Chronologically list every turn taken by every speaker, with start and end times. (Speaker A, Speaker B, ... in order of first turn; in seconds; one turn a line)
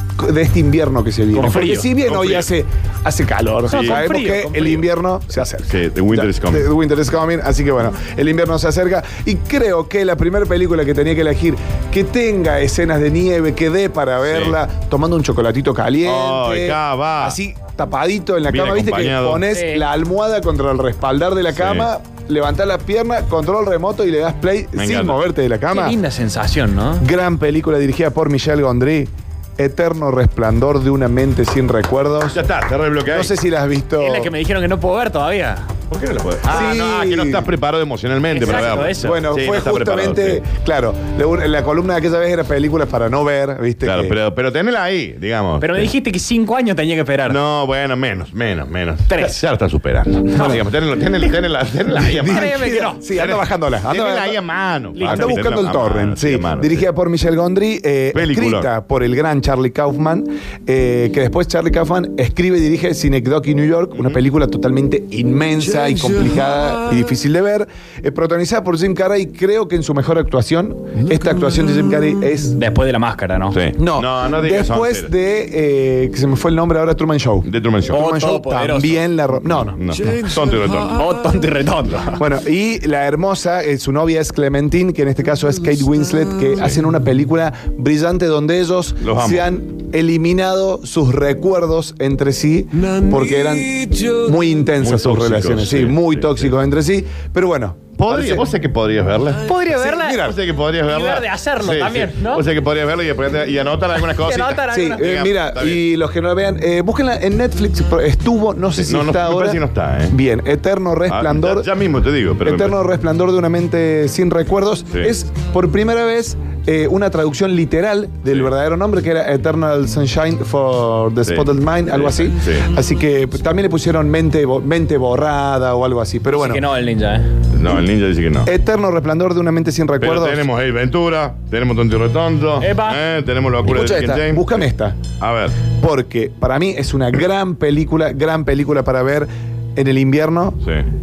Speaker A: 0.2-26.0
Speaker B: 1.3-1.9
Speaker C: 1.5-2.5
Speaker B: 3.7-4.9
Speaker C: 3.7-4.0
Speaker C: 5.4-6.7
Speaker C: 14.2-14.6
Speaker C: 16.0-17.4
Speaker C: 18.4-19.4
Speaker B: 19.5-19.8
Speaker C: 21.5-21.9
Speaker C: 24.8-25.2
Speaker B: 25.7-27.0
Speaker A: 27.0-32.4
Speaker C: 32.3-33.3
Speaker A: 33.1-34.3
Speaker B: 34.0-35.8
Speaker C: 35.9-40.4
Speaker A: 36.4-37.5
Speaker B: 38.3-39.2
Speaker A: 38.9-44.1
Speaker C: 43.8-45.9
Speaker B: 45.6-47.4
Speaker C: 47.2-56.9
Speaker B: 49.1-49.4
Speaker B: 50.3-50.6
Speaker A: 50.4-50.6
Speaker B: 52.0-53.0
Speaker A: 52.1-54.4
Speaker B: 55.0-55.6
Speaker A: 55.0-72.6
Speaker C: 58.1-58.7
Speaker B: 72.5-73.6
Speaker C: 73.5-75.1
Speaker A: 73.8-79.8
Speaker C: 77.4-78.0
Speaker B: 77.9-79.0
Speaker C: 79.7-81.0
Speaker B: 80.9-82.2
Speaker A: 82.2-98.5
Speaker C: 89.0-89.5
Speaker C: 94.8-96.5
Speaker C: 98.0-99.5
Speaker B: 99.4-100.2
Speaker A: 99.6-100.4
Speaker C: 100.2-105.8
Speaker B: 100.8-102.5
Speaker B: 104.0-105.0
Speaker A: 104.7-111.7
Speaker C: 108.8-110.2
Speaker C: 111.1-112.8
Speaker A: 112.4-126.6
Speaker C: 121.2-122.7
Speaker B: 126.3-127.3
Speaker C: 127.5-128.5
Speaker A: 128.4-130.5
Speaker C: 130.0-134.6
Speaker B: 132.6-133.0
Speaker A: 133.6-135.0
Speaker C: 135.2-135.6
Speaker A: 135.8-140.6